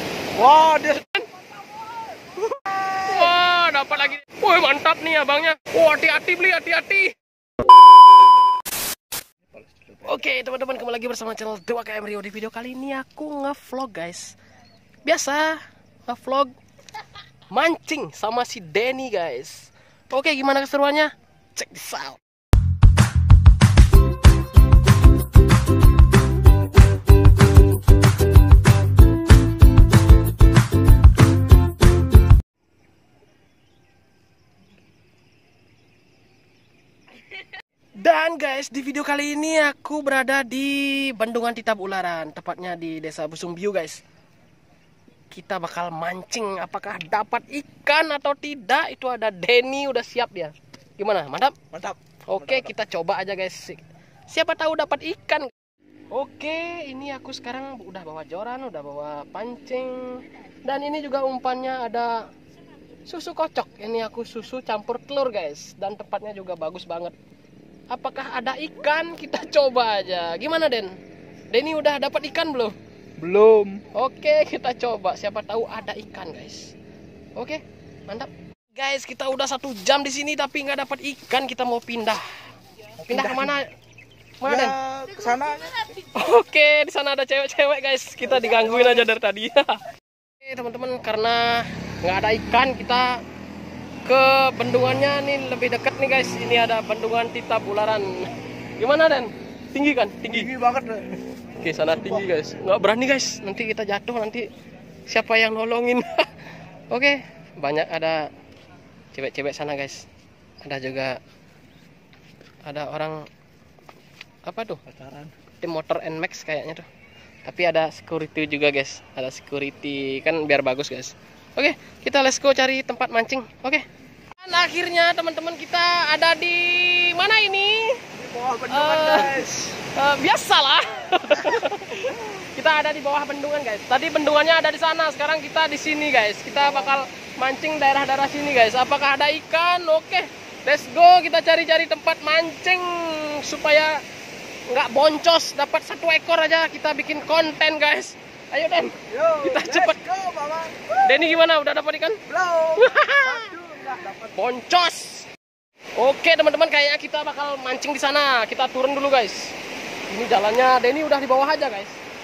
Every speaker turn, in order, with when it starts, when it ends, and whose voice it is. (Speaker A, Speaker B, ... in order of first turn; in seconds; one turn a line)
Speaker A: 0.3-1.0
Speaker A: 2.6-3.3
Speaker B: 3.1-7.1
Speaker A: 9.6-10.1
Speaker B: 10.0-14.3
Speaker B: 15.0-16.5
Speaker B: 17.5-22.2
Speaker B: 38.0-44.0
Speaker B: 45.3-51.5
Speaker A: 51.7-52.7
Speaker B: 52.3-55.5
Speaker B: 56.1-62.2
Speaker B: 63.0-67.2
Speaker B: 67.9-70.9
Speaker B: 71.5-72.7
Speaker A: 73.2-73.8
Speaker B: 73.9-76.7
Speaker B: 77.3-82.4
Speaker B: 83.0-83.7
Speaker A: 83.1-83.5
Speaker B: 84.4-84.7
Speaker A: 84.4-85.9
Speaker B: 85.9-89.8
Speaker A: 88.2-89.1
Speaker B: 90.4-93.2
Speaker B: 94.0-100.5
Speaker A: 100.3-101.2
Speaker B: 101.6-104.5
Speaker A: 101.9-102.3
Speaker B: 105.1-106.3
Speaker B: 106.9-108.2
Speaker B: 109.1-110.0
Speaker B: 110.6-111.2
Speaker B: 112.7-113.2
Speaker B: 114.5-114.8
Speaker A: 114.9-115.3
Speaker B: 115.6-116.8
Speaker B: 117.5-123.8
Speaker B: 124.4-128.0
Speaker A: 128.2-129.8
Speaker B: 128.7-143.9
Speaker A: 136.6-137.0
Speaker B: 144.7-150.0
Speaker A: 149.1-151.2
Speaker B: 151.0-152.2
Speaker A: 152.3-154.4
Speaker B: 152.8-153.5
Speaker B: 154.3-155.3
Speaker B: 156.0-159.5
Speaker B: 160.1-162.0